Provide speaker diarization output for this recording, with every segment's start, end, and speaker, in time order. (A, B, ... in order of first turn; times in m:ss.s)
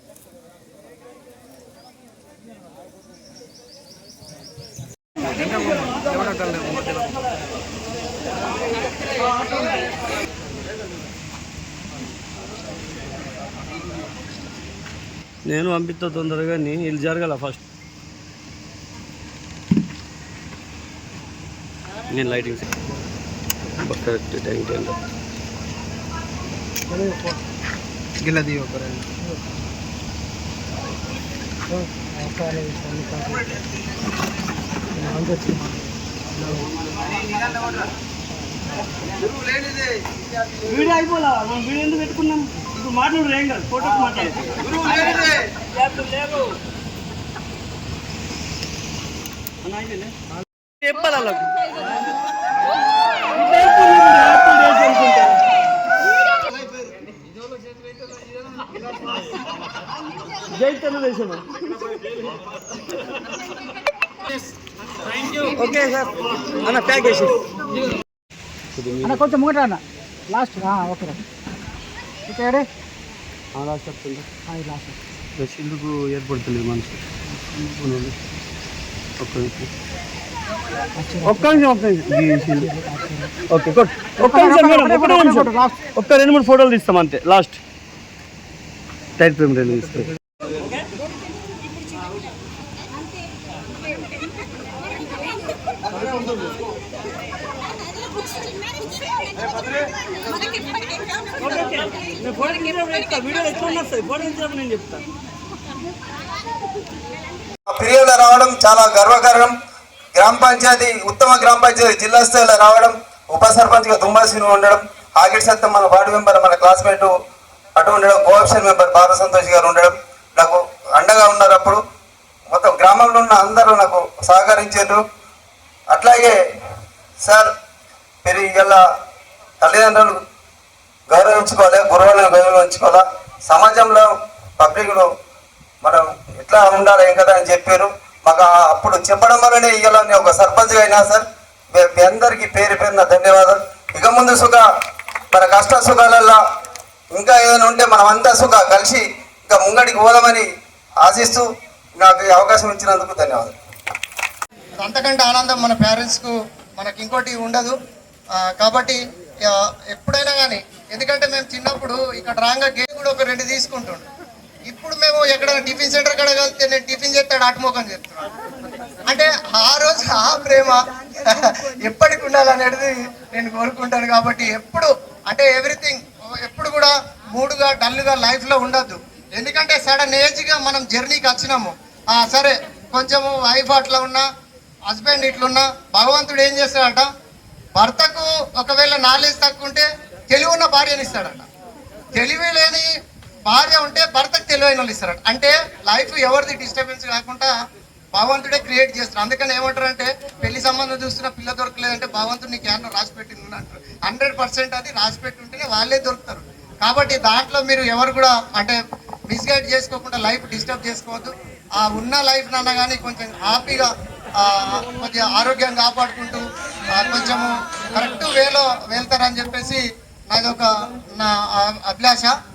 0:05.8-0:06.6 A
0:15.5-0:17.6 A
0:22.1-0:22.6 A
0:23.8-0:25.0 A
0:32.3-0:33.3 B
0:35.0-0:35.6 B
0:40.6-0:46.6 A
0:49.6-0:50.1 A
0:50.8-0:51.5 A
0:53.3-0:55.4 A
1:00.5-1:01.4 A
1:05.4-1:07.4 A
1:08.7-1:09.3 A
1:09.0-1:11.2 B
1:12.3-1:12.7 B
1:13.6-1:14.2 A
1:14.5-1:15.0 B
1:15.4-1:17.0 A
1:17.6-1:18.2 A
1:19.2-1:19.7 A
1:21.0-1:21.4 B
1:21.2-1:22.7 A
1:22.6-1:23.3 B
1:23.5-1:27.6 A
1:24.2-1:25.8 B
1:29.2-1:30.1 A
1:41.4-1:45.0 A
1:47.7-1:49.5 C
1:50.2-1:57.1 C
1:57.8-2:01.8 C
2:02.5-2:05.0 C
2:05.9-2:06.3 C
2:08.2-2:08.8 C
2:09.6-2:10.2 C
2:11.1-2:14.0 C
2:14.6-2:15.0 C
2:15.8-2:24.6 C
2:25.3-2:26.4 C
2:27.1-2:30.5 C
2:31.0-2:31.4 C
2:32.0-2:33.5 C
2:34.8-2:37.8 D
2:38.4-2:44.0 D
2:44.7-2:48.2 D
2:49.1-3:04.2 D
3:04.9-3:07.1 D
3:07.8-3:11.5 D
3:12.2-3:12.9 D
3:13.5-3:17.5 D
3:18.1-3:28.8 D
3:29.3-3:42.3 D